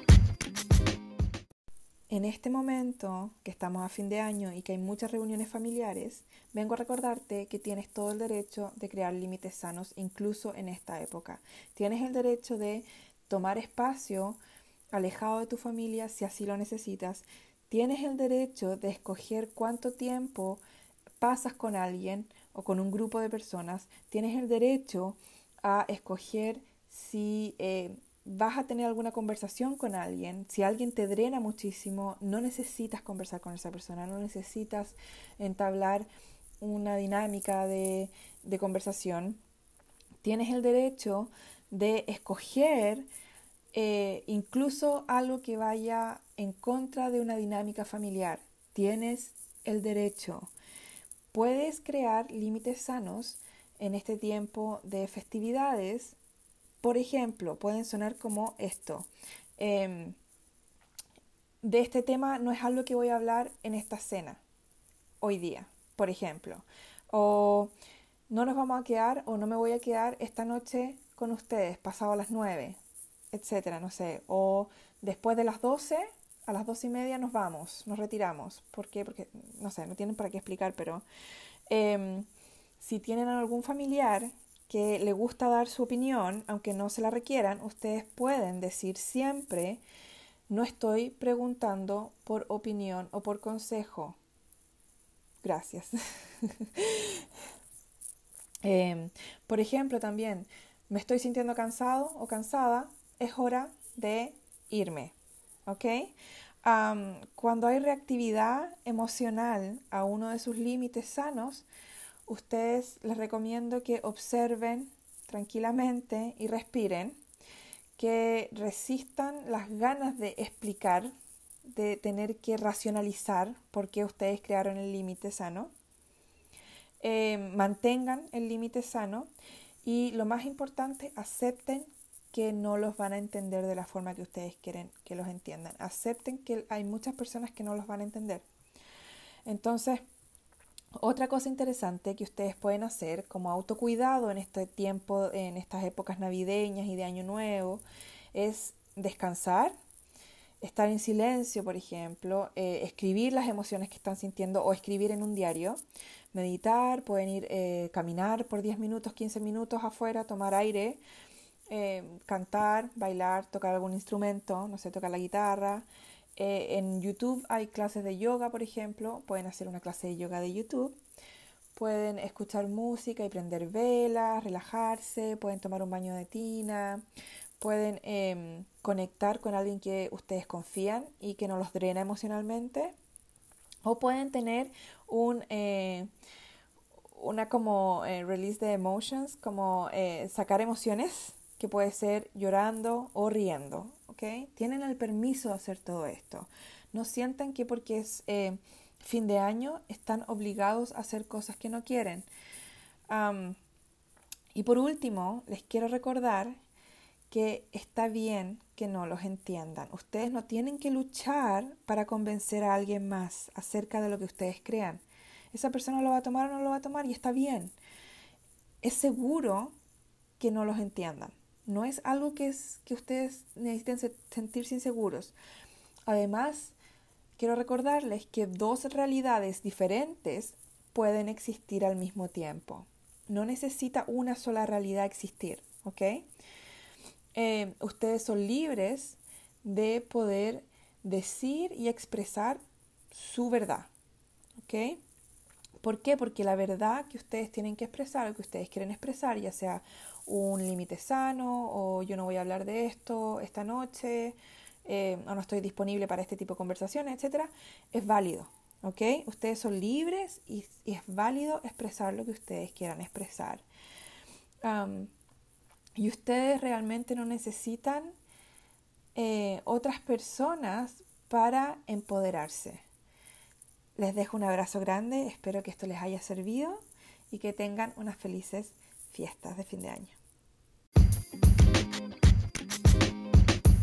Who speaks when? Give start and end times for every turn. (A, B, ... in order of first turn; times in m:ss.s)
0:02.1-0:14.4 A
0:14.9-0:20.6 A
0:21.2-0:36.1 A
0:36.6-0:39.4 A
0:40.2-0:43.1 A
0:43.7-0:50.5 A
0:51.3-0:56.2 A
0:56.8-1:00.2 A
1:01.6-1:04.4 A
1:05.2-1:07.7 A
1:08.3-1:12.8 A
1:13.3-1:21.0 A
1:21.7-1:22.3 A
1:22.8-1:29.8 A
1:30.5-1:34.2 A
1:35.4-1:37.2 A
1:38.6-1:45.1 A
1:45.7-1:51.7 A
1:52.3-1:57.2 A
1:58.0-2:01.1 A
2:01.7-2:05.7 A
2:07.0-2:09.3 A
2:09.8-2:18.4 A
2:19.5-2:20.0 A
2:21.0-2:27.8 A
2:28.3-2:29.7 A
2:30.6-2:35.8 A
2:36.3-2:41.0 A
2:41.7-2:45.9 A
2:46.4-2:51.0 A
2:51.8-2:57.0 A
2:57.6-3:03.0 A
3:03.8-3:06.1 A
3:07.1-3:22.3 A
3:23.1-3:23.6 A
3:24.5-3:26.6 A
3:27.3-3:37.8 A
3:38.8-3:39.8 A
3:40.4-3:45.4 A
3:46.1-3:46.8 A
3:47.4-3:56.3 A
3:57.4-4:03.9 A
4:04.6-4:05.0 A
4:05.8-4:23.6 A
4:24.6-4:25.1 A
4:26.0-4:28.1 A
4:29.2-4:32.8 A
4:34.0-4:40.2 A